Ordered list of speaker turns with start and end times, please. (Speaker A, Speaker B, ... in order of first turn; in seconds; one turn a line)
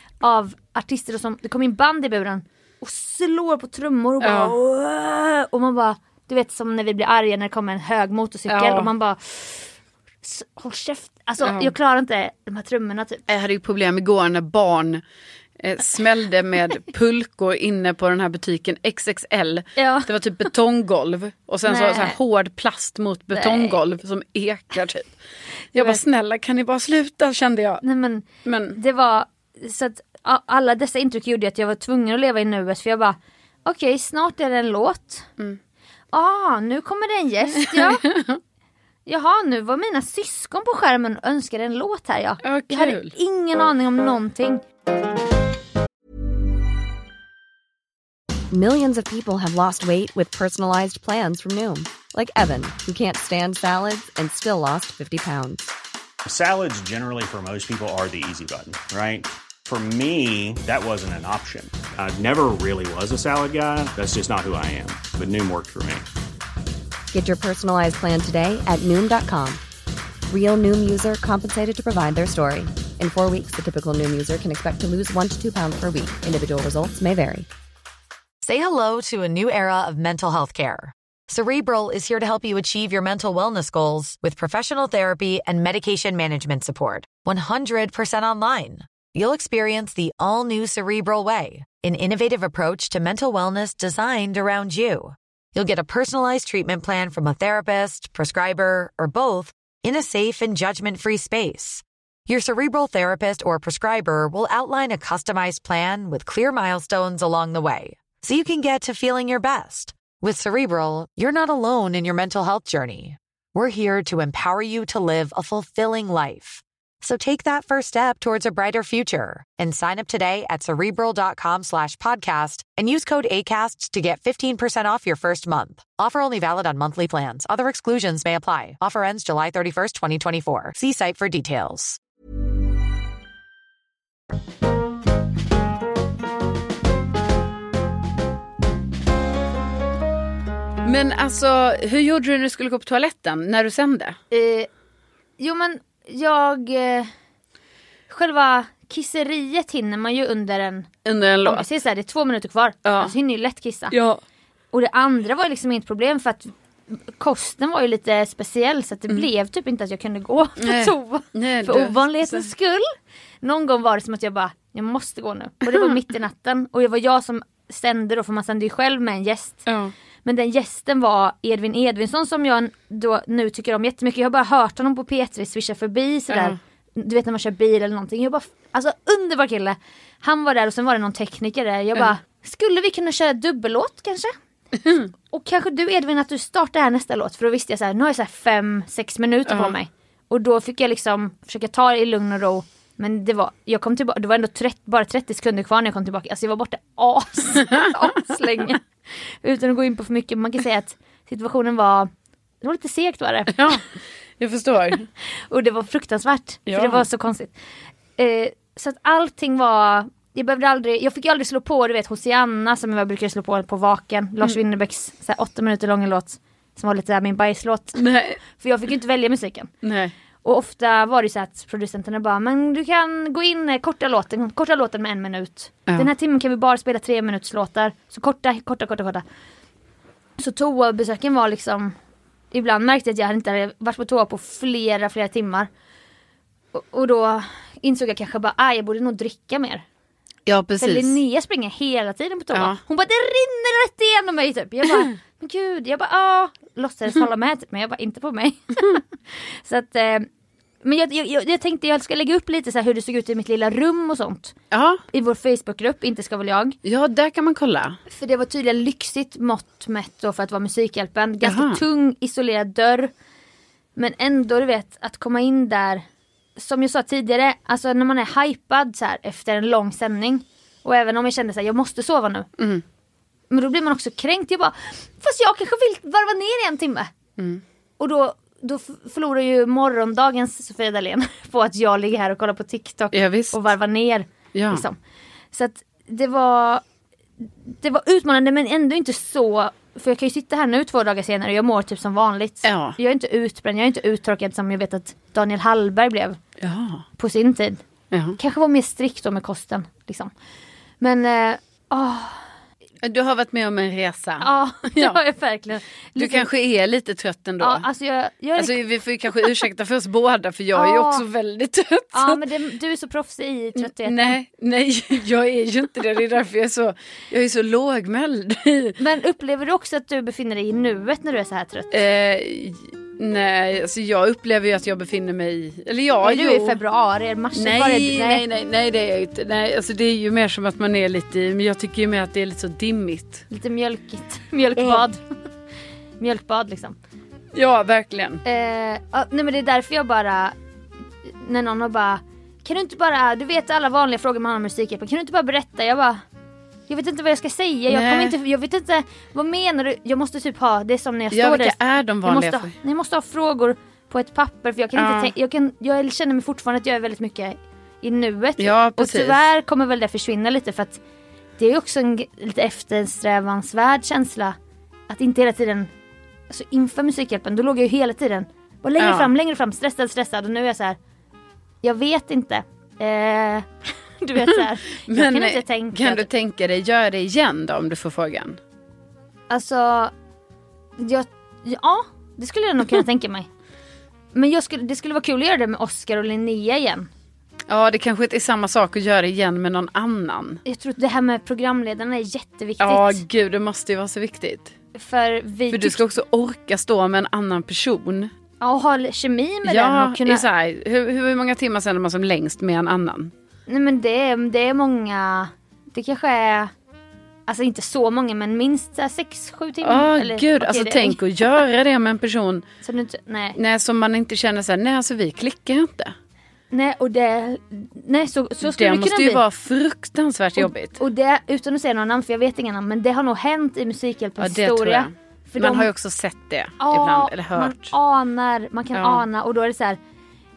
Speaker A: 0.2-9.7
Speaker B: 4.2-4.6
Speaker B: 8.5-8.9
Speaker A: 10.2-13.3
Speaker B: 11.4-11.7
Speaker B: 13.3-15.0
Speaker B: 15.6-25.1
Speaker A: 19.8-20.1
Speaker A: 21.7-22.2
Speaker A: 23.3-23.8
Speaker A: 25.7-26.0
Speaker B: 25.7-27.8
Speaker A: 27.8-35.3
Speaker B: 28.4-28.8
Speaker A: 36.1-38.0
Speaker B: 37.6-38.4
Speaker A: 39.1-44.6
Speaker B: 42.4-43.1
Speaker C: 48.5-55.7
Speaker D: 56.3-66.0
Speaker C: 67.1-69.6
Speaker C: 70.3-77.5
Speaker E: 78.4-132.0
Speaker B: 140.8-144.2
Speaker A: 144.3-144.7
Speaker A: 145.4-147.1
Speaker A: 148.1-150.9
Speaker B: 151.1-151.7
Speaker A: 151.4-153.9
Speaker B: 152.8-153.1
Speaker B: 153.9-154.2
Speaker A: 154.7-162.9
Speaker B: 160.6-162.5
Speaker A: 163.4-169.7
Speaker B: 165.7-166.0
Speaker B: 169.7-169.9
Speaker A: 170.2-184.3
Speaker B: 176.3-176.6
Speaker A: 185.3-202.1
Speaker B: 189.5-189.7
Speaker A: 202.6-203.8
Speaker B: 203.5-203.8
Speaker B: 204.4-205.1
Speaker A: 205.5-207.5
Speaker B: 206.7-207.0
Speaker A: 208.2-219.7
Speaker B: 218.0-218.4
Speaker B: 219.8-220.1
Speaker A: 220.4-229.2
Speaker A: 230.4-231.9
Speaker A: 232.5-235.7
Speaker A: 236.7-239.8
Speaker B: 240.5-241.2
Speaker A: 240.8-250.3
Speaker A: 250.8-254.6
Speaker B: 254.7-255.0
Speaker A: 255.1-256.8
Speaker B: 256.9-258.0
Speaker A: 258.1-263.1
Speaker B: 261.4-261.8
Speaker A: 264.0-266.1
Speaker A: 266.6-272.5
Speaker B: 272.6-272.8
Speaker A: 273.5-277.1
Speaker A: 278.0-285.0
Speaker B: 283.1-283.6
Speaker B: 284.5-284.8
Speaker A: 285.5-286.8
Speaker A: 287.4-296.4
Speaker B: 292.6-293.0
Speaker B: 296.6-297.1
Speaker A: 297.2-297.8
Speaker B: 298.1-298.4
Speaker A: 298.4-300.3
Speaker A: 301.0-302.4
Speaker B: 303.0-305.2
Speaker A: 304.4-306.5
Speaker B: 306.2-307.9
Speaker A: 307.6-308.8
Speaker B: 308.6-312.5
Speaker A: 310.7-311.2
Speaker A: 312.1-314.4
Speaker B: 313.8-319.0
Speaker A: 319.0-322.0
Speaker B: 321.9-326.8
Speaker A: 326.2-328.4
Speaker B: 327.5-333.5
Speaker A: 333.5-335.2
Speaker B: 334.8-335.0
Speaker A: 336.2-337.0
Speaker B: 337.5-338.4
Speaker A: 338.4-340.6
Speaker A: 341.2-346.2
Speaker A: 346.9-361.0
Speaker B: 347.9-348.4
Speaker B: 351.3-352.7
Speaker B: 354.9-355.3
Speaker B: 358.6-359.4
Speaker A: 361.6-364.6
Speaker A: 365.1-365.9
Speaker A: 366.5-371.0
Speaker B: 369.0-369.3
Speaker A: 371.8-376.3
Speaker B: 374.5-378.6
Speaker A: 379.5-380.1
Speaker A: 381.0-383.5
Speaker A: 384.3-387.1
Speaker B: 387.7-390.6
Speaker A: 390.6-393.2
Speaker B: 392.8-394.7
Speaker A: 394.9-396.0
Speaker B: 395.7-398.3
Speaker A: 398.6-400.4
Speaker B: 399.6-403.3
Speaker A: 403.7-406.7
Speaker A: 407.5-411.2
Speaker B: 409.8-412.6
Speaker A: 412.8-413.6
Speaker B: 413.6-416.1
Speaker A: 416.7-419.4
Speaker B: 418.6-421.0
Speaker A: 420.6-425.9
Speaker B: 424.4-427.9
Speaker A: 426.8-430.0
Speaker B: 428.9-429.2